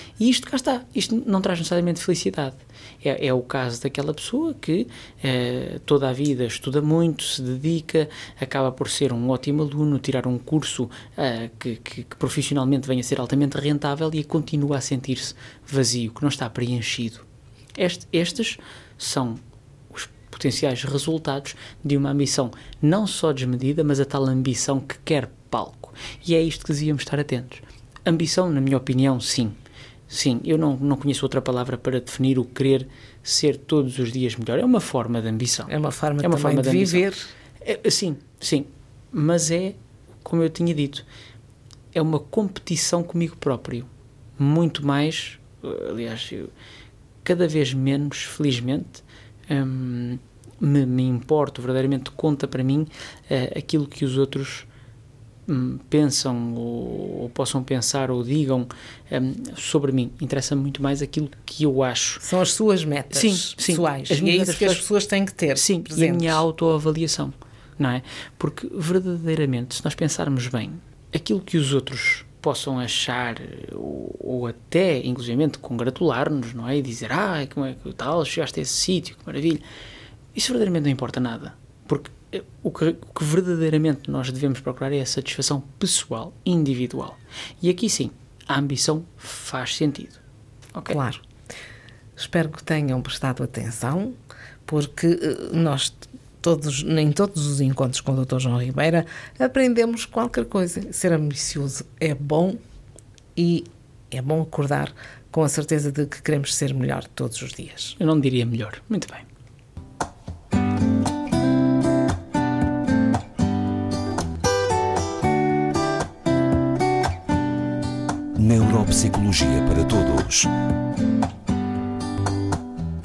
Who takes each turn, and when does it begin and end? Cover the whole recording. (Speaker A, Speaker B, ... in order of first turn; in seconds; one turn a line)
Speaker A: 0.2-17.3
Speaker A: 17.8-19.4
Speaker A: 19.9-29.6
Speaker A: 30.1-37.1
Speaker B: 35.7-37.3
Speaker A: 37.6-41.1
Speaker A: 41.9-46.5
Speaker A: 47.2-54.7
Speaker A: 55.5-62.2
Speaker B: 62.2-66.4
Speaker A: 63.1-64.8
Speaker A: 65.5-79.6
Speaker A: 80.3-90.2
Speaker A: 90.7-91.0
Speaker B: 90.9-91.2
Speaker B: 92.2-94.2
Speaker B: 94.7-102.6
Speaker B: 103.4-108.0
Speaker A: 108.0-109.3
Speaker C: 118.4-120.5